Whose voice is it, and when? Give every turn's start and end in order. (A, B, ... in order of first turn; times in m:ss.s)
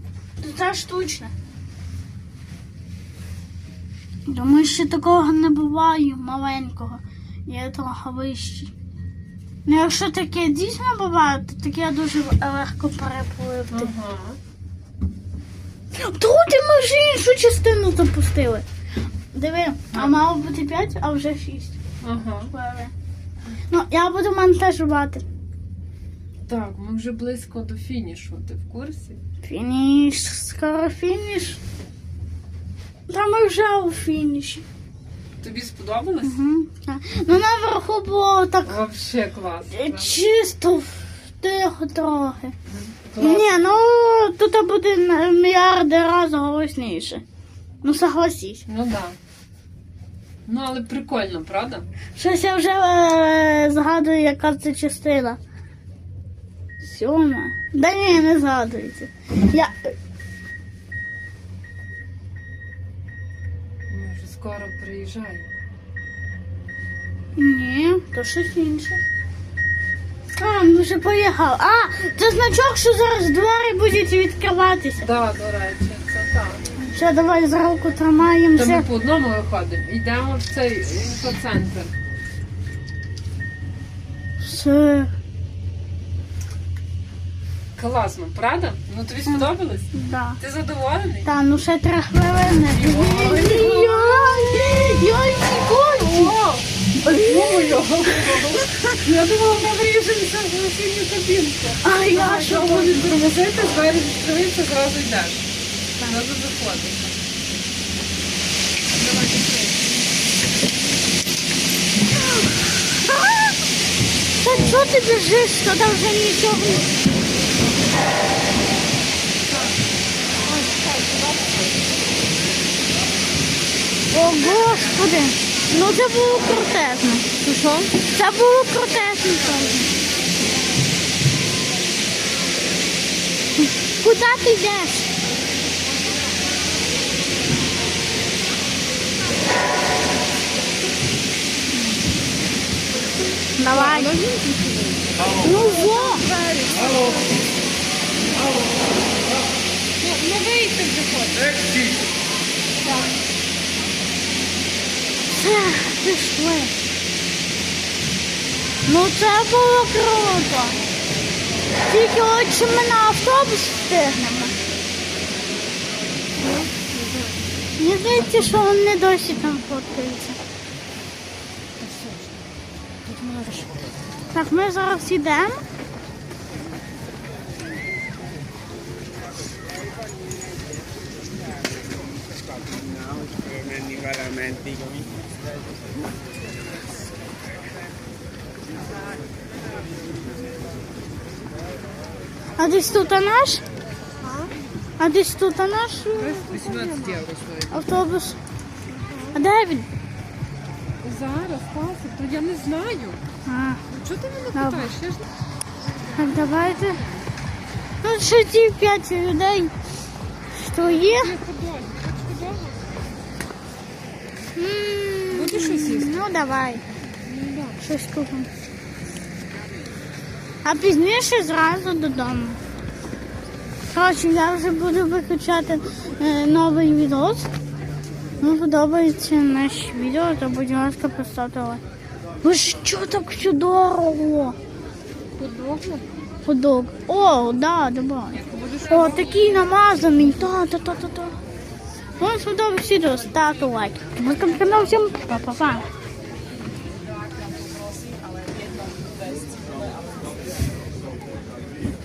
0:00.4-0:01.3 A
0:04.2-0:08.7 A
0:09.6-0:13.9 A
0:13.7-0:14.4 B
0:15.9-0:18.6 A
0:19.3-0:21.8 A
0:22.0-0:22.5 B
0:22.5-0:22.9 A
0:23.7-0:25.2 A
0:26.5-0:29.2 B
0:29.4-0:31.6 A
0:33.1-0:34.6 A
0:35.4-0:36.4 B
0:36.2-0:38.8 A
0:38.6-0:40.2 B
0:39.7-0:42.5 A
0:42.7-0:43.6 B
0:43.2-0:47.2 A
0:47.8-0:48.6 A
0:48.7-0:49.2 B
0:50.4-0:51.8 B
0:52.2-0:55.4 A
0:56.8-0:59.9 A
1:03.9-1:05.5 B
1:07.4-1:09.0 A
1:10.3-1:15.1 A
1:15.0-1:16.7 B
1:16.8-1:18.8 A
1:18.5-1:21.9 B
1:24.4-1:25.1 A
1:27.8-1:31.3 B
1:29.3-1:30.4 A
1:31.2-1:36.4 A
1:32.6-1:35.0 B
1:35.9-1:45.5 B
1:37.2-1:37.8 A
1:41.8-1:43.2 A
1:46.0-1:47.1 B
1:48.9-1:49.9 B
1:54.4-1:56.9 A
2:00.5-2:01.4 B
2:04.1-2:07.3 A
2:07.4-2:08.0 B
2:08.0-2:10.0 A
2:14.0-2:15.1 A
2:21.7-2:22.0 A
2:23.6-2:24.2 A
2:23.7-2:27.4 B
2:25.3-2:26.3 A
2:30.0-2:31.8 B
2:35.3-2:36.7 A
2:38.8-2:40.8 A
2:41.9-2:44.5 A
2:46.4-2:47.5 B
2:47.8-2:50.4 A
2:48.1-2:48.7 B
2:51.8-2:52.5 B
2:53.0-2:53.9 B
2:54.3-2:55.6 A
3:03.0-3:05.0 C
3:12.6-3:13.6 A
3:14.2-3:14.5 B
3:15.0-3:16.8 A
3:16.1-3:17.9 B
3:17.7-3:18.4 A
3:18.9-3:19.4 B
3:19.3-3:19.9 A
3:21.0-3:23.2 B
3:23.4-3:23.8 A
3:23.9-3:25.3 B
3:24.5-3:24.9 A
3:25.8-3:27.3 B
3:26.2-3:27.0 A
3:28.0-3:29.7 A
3:30.5-3:31.3 A
3:30.8-3:32.9 B
3:34.5-3:36.8 A
3:35.3-3:36.3 B
3:37.2-3:37.8 B
3:37.8-3:38.5 A
3:40.6-3:42.6 A
3:43.9-3:47.5 A
3:48.4-3:51.8 A
3:52.4-3:54.6 A
3:55.4-3:56.0 B
3:56.4-4:01.4 A
3:58.3-4:00.2 B
4:02.2-4:05.9 A